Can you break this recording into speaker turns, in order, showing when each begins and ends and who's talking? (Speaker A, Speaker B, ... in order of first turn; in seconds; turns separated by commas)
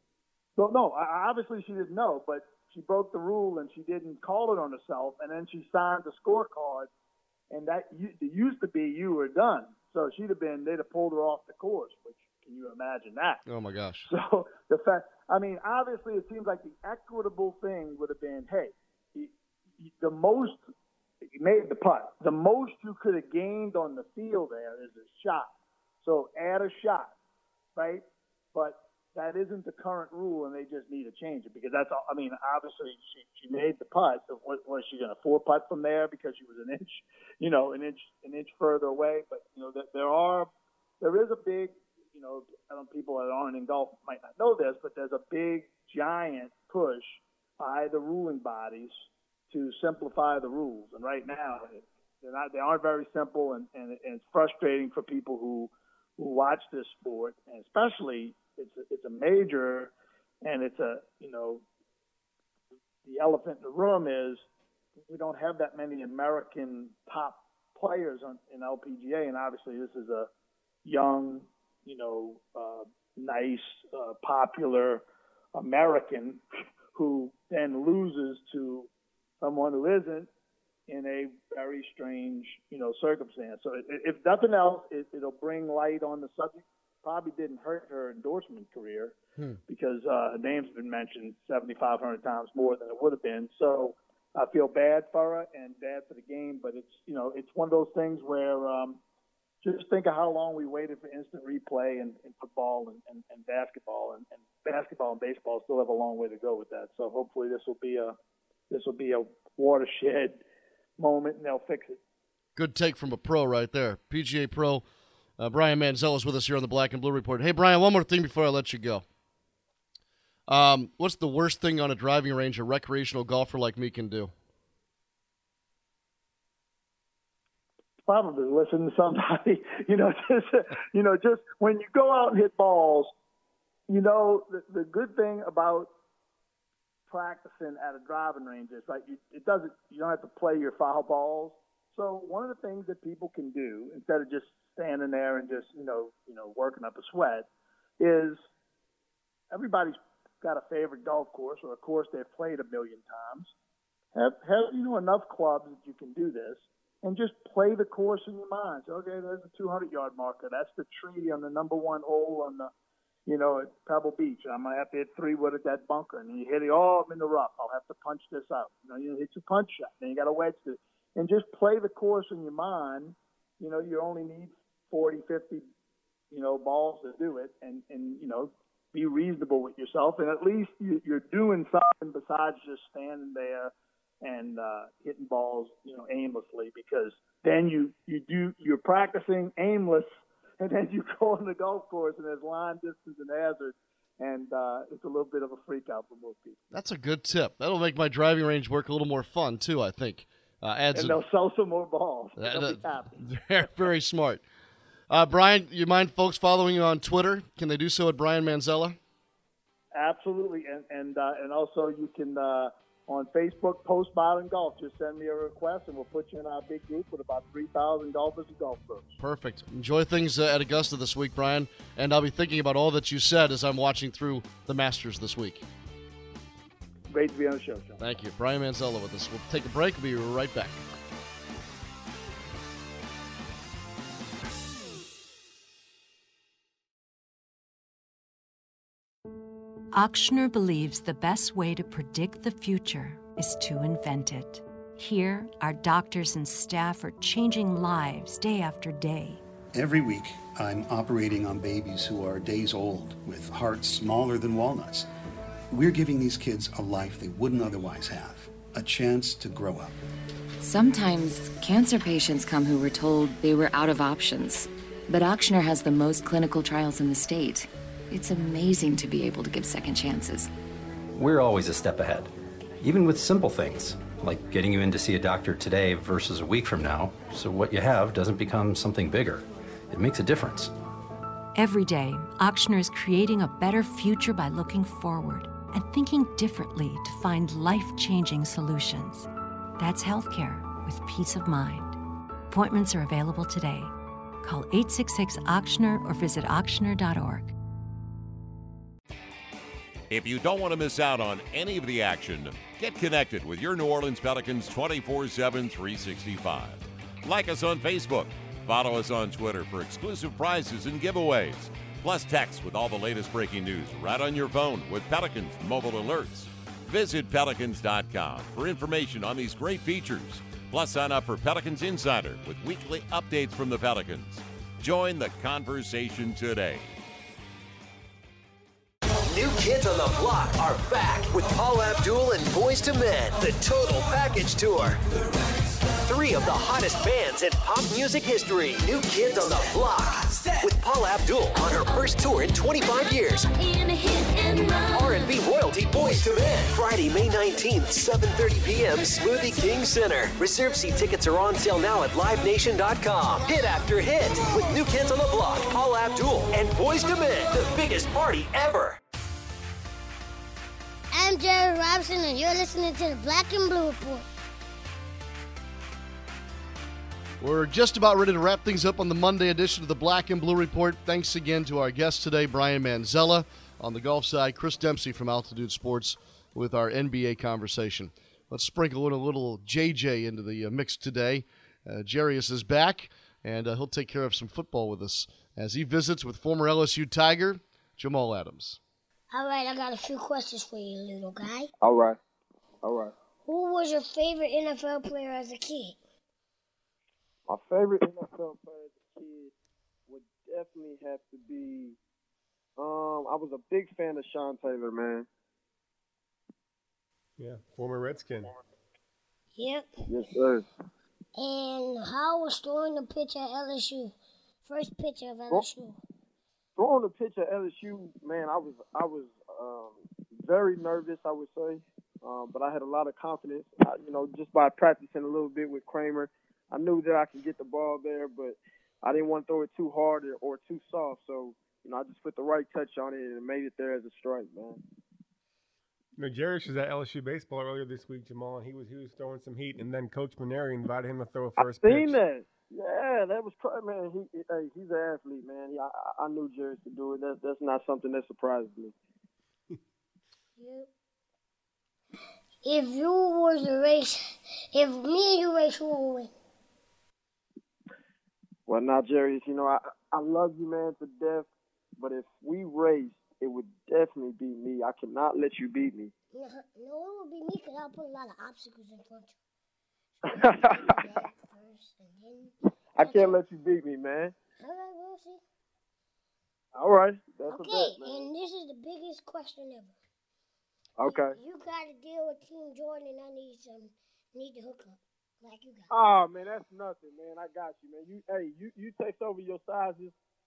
Speaker A: 0.6-6.9, Speaker A: 7.5-13.4, Speaker B: 13.4-14.1, Speaker A: 14.1-20.6, Speaker A: 21.3-27.1, Speaker A: 27.7-40.5, Speaker A: 41.0-48.9, Speaker A: 49.5-61.6, Speaker A: 63.0-64.4, Speaker A: 65.1-70.3, Speaker A: 70.8-76.4, Speaker A: 76.9-78.9, Speaker A: 79.4-80.3, Speaker A: 80.9-89.2, Speaker A: 89.7-99.0, Speaker A: 99.6-108.2, Speaker A: 108.7-110.4, Speaker A: 111.0-112.0, Speaker B: 112.5-114.8, Speaker B: 115.4-119.0, Speaker B: 120.5-124.3, Speaker A: 128.1-133.1, Speaker A: 133.9-135.9, Speaker A: 137.1-147.5, Speaker A: 148.0-148.4, Speaker A: 149.5-153.5, Speaker A: 154.1-162.7, Speaker A: 163.2-175.6, Speaker A: 176.3-190.1, Speaker A: 190.6-196.6, Speaker B: 196.7-201.2, Speaker A: 200.9-203.2, Speaker B: 202.4-204.4, Speaker B: 205.1-209.0, Speaker A: 209.9-219.1, Speaker B: 219.2-225.6, Speaker A: 227.1-228.0, Speaker B: 228.0-230.8, Speaker C: 239.9-249.4, Speaker D: 249.7-255.1, Speaker D: 255.7-259.9, Speaker E: 260.6-270.5, Speaker F: 271.1-272.3, Speaker F: 272.8-280.7, Speaker C: 281.5-289.3, Speaker C: 289.8-292.0, Speaker C: 292.5-293.9, Speaker C: 294.4-297.5, Speaker G: 300.1-326.9, Speaker H: 329.3-335.0, Speaker H: 336.0-359.0, Speaker I: 361.1-364.2, Speaker B: 367.4-388.8, Speaker I: 389.3-391.7, Speaker J: 391.8-392.2, Speaker J: 392.8-393.1, Speaker I: 393.4-396.0, Speaker J: 397.5-399.5, Speaker J: 400.1-402.0, Speaker J: 402.8-405.3, Speaker K: 407.4-408.6, Speaker I: 409.6-410.0, Speaker J: 410.1-410.6, Speaker I: 411.4-414.1, Speaker I: 414.6-416.0, Speaker J: 416.8-434.8, Speaker K: 436.2-442.2, Speaker J: 441.6-448.9, Speaker I: 450.6-450.9, Speaker I: 452.6-456.3, Speaker J: 458.7-461.5, Speaker J: 462.0-466.1, Speaker I: 466.3-469.3, Speaker I: 470.2-473.4, Speaker J: 470.3-471.0, Speaker J: 472.9-474.3, Speaker I: 474.6-475.4, Speaker J: 476.7-478.3, Speaker I: 477.5-479.9, Speaker J: 481.0-481.4, Speaker I: 481.1-485.9, Speaker J: 485.9-490.1